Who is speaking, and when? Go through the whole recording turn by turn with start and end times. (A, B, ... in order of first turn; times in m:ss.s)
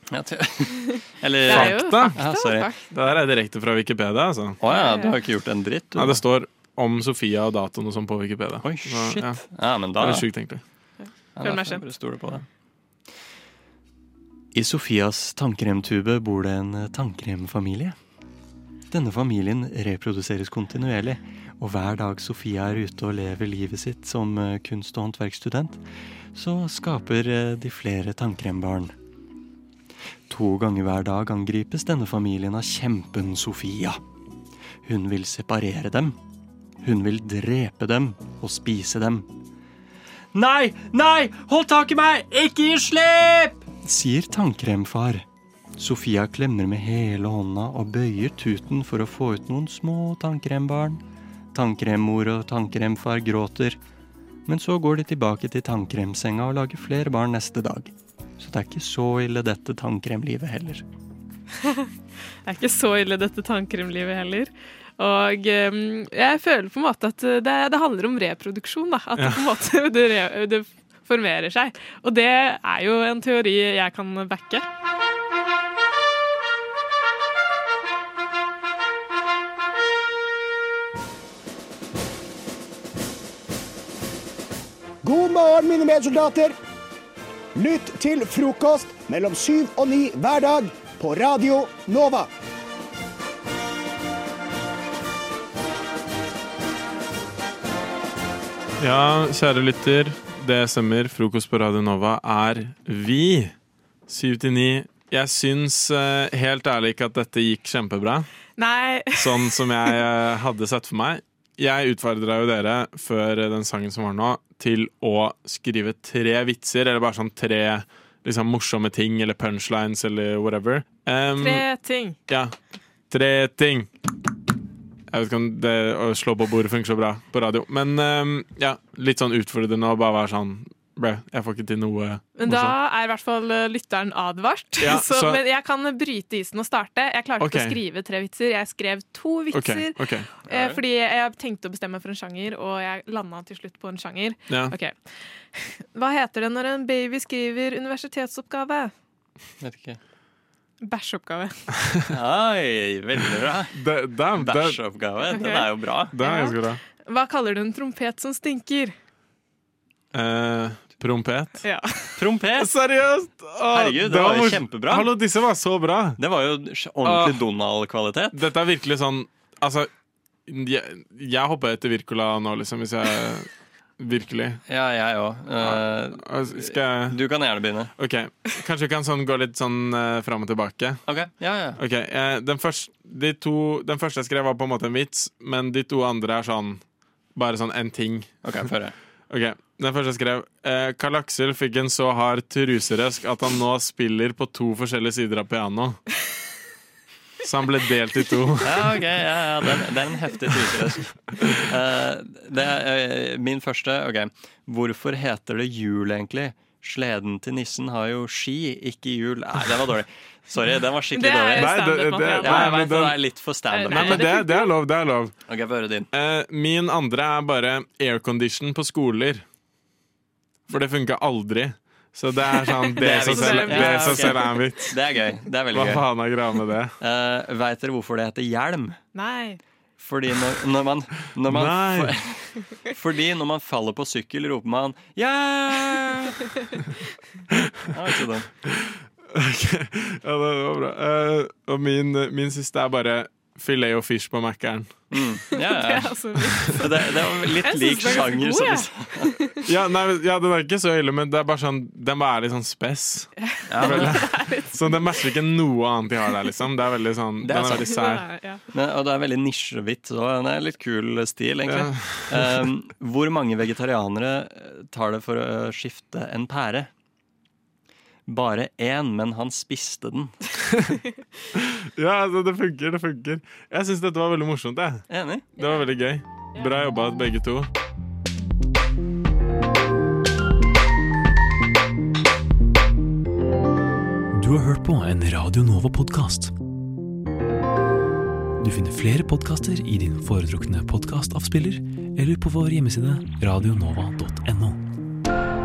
0:00.1-0:02.8 A
0:01.0-0:02.8 B
0:01.4-0:02.2 C
0:02.9-0:04.6 C
0:04.6-0:06.2 A
0:04.6-0:05.2 B
0:06.0-0:10.6 C
0:08.6-0:10.3 A
0:11.3-0:12.4 A
0:11.4-0:11.9 B
0:14.5-0:18.0 A
0:18.9-0:25.8 A
0:26.3-0:28.9 A
0:30.3-0:34.0 A
0:34.8-0:36.2 A
0:36.8-0:39.3 A
0:40.3-0:45.2 A
0:45.8-0:51.0 A
0:51.5-0:53.8 A
0:54.5-1:00.8 A
1:02.4-1:14.6 B
1:09.2-1:09.5 C
1:25.0-1:26.6 D
1:27.6-1:32.3 D
1:38.8-1:43.5 C
1:44.1-1:48.3 C
1:48.6-1:49.6 B
1:49.2-2:01.7 C
2:01.4-2:02.2 B
2:02.3-2:02.5 C
2:03.1-2:03.9 C
2:05.1-2:12.8 C
2:12.4-2:28.9 B
2:14.8-2:15.4 C
2:17.4-2:17.8 C
2:19.5-2:20.8 C
2:24.5-2:24.8 C
2:29.6-2:30.0 A
2:30.8-2:31.6 B
2:32.1-2:33.8 A
2:33.7-2:34.8 C
2:34.4-2:36.2 A
2:35.3-2:38.9 B
2:36.1-2:36.8 C
2:40.1-2:41.6 C
2:41.6-2:42.2 B
2:42.2-2:42.7 A
2:42.6-2:46.2 C
2:43.7-2:45.2 A
2:46.2-2:48.4 A
2:47.0-2:47.4 C
2:48.3-2:49.9 C
2:50.5-2:54.6 C
2:54.7-2:57.9 A
2:55.6-2:57.3 C
2:58.0-3:01.0 C
3:01.0-3:01.8 A
3:01.8-3:06.8 C
3:07.4-3:08.4 C
3:08.4-3:09.0 A
3:09.3-3:16.0 C
3:17.4-3:19.0 C
3:18.6-3:34.4 A
3:31.2-3:32.9 B
3:31.5-3:33.3 C
3:33.7-3:34.7 B
3:33.9-3:35.3 C
3:35.5-3:36.1 A
3:36.1-3:39.4 C
3:40.7-3:45.0 C
3:42.8-3:44.6 B
3:43.0-3:46.1 A
3:45.7-3:46.9 C
3:47.0-3:49.0 A
3:49.1-3:49.6 B
3:50.0-3:56.4 A
3:51.3-3:52.2 C
3:57.9-3:58.5 A
3:59.4-4:05.0 C
4:05.1-4:09.4 A
4:05.5-4:09.6 B
4:09.7-4:18.3 C
4:13.4-4:15.2 B
4:13.7-4:14.2 A
4:17.4-4:17.9 A
4:17.8-4:18.6 B
4:18.7-4:26.9 A
4:21.7-4:22.5 C
4:28.3-4:30.3 A
4:31.6-4:37.7 C
4:35.1-4:35.5 A
4:36.6-4:36.9 B
4:44.3-4:46.5 E
4:48.6-4:54.8 E